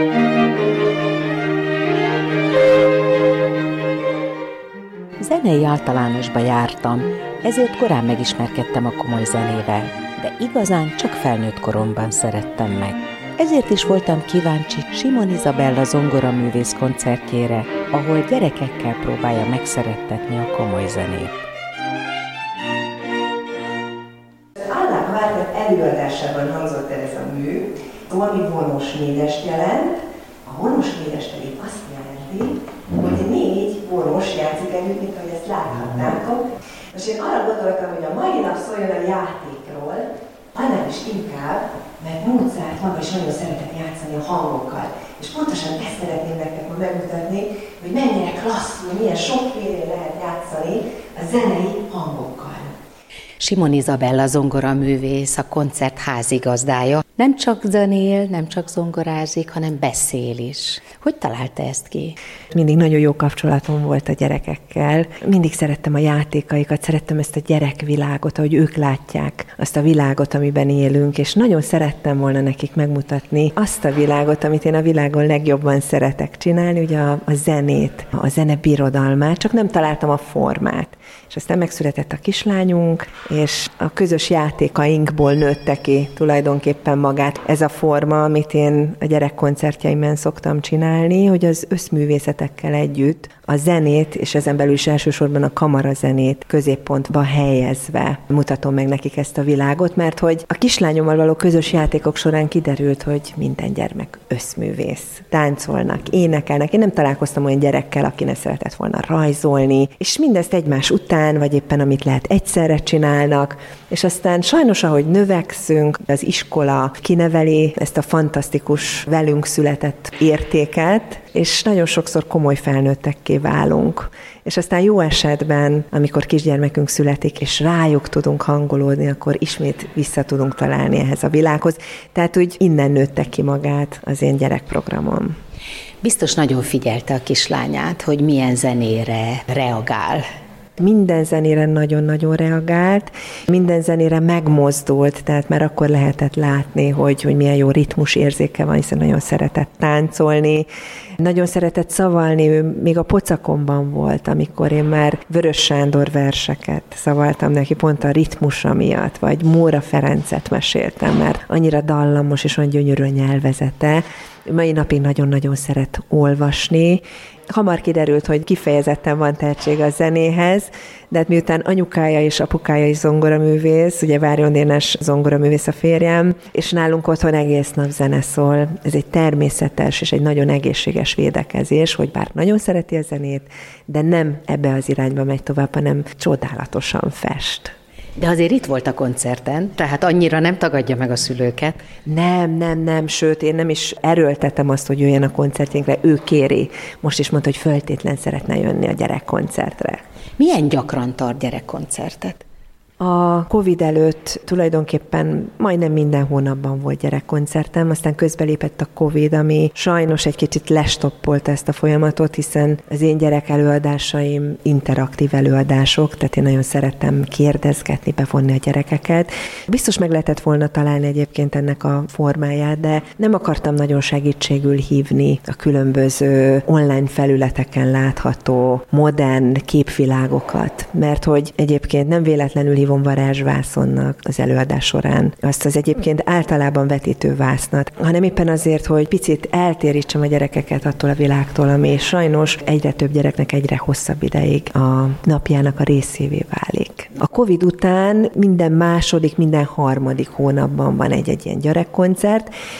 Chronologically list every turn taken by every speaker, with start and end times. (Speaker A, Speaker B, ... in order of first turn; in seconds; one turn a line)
Speaker A: 5.2-21.5
Speaker B: 24.6-52.7
Speaker A: 53.4-62.2
Speaker B: 62.5-135.3
Speaker A: 136.0-140.2
Speaker B: 140.8-150.7
Speaker B: 151.2-187.7
Speaker A: 188.2-191.8
Speaker B: 192.1-200.0
Speaker A: 200.4-202.4
Speaker B: 203.0-252.5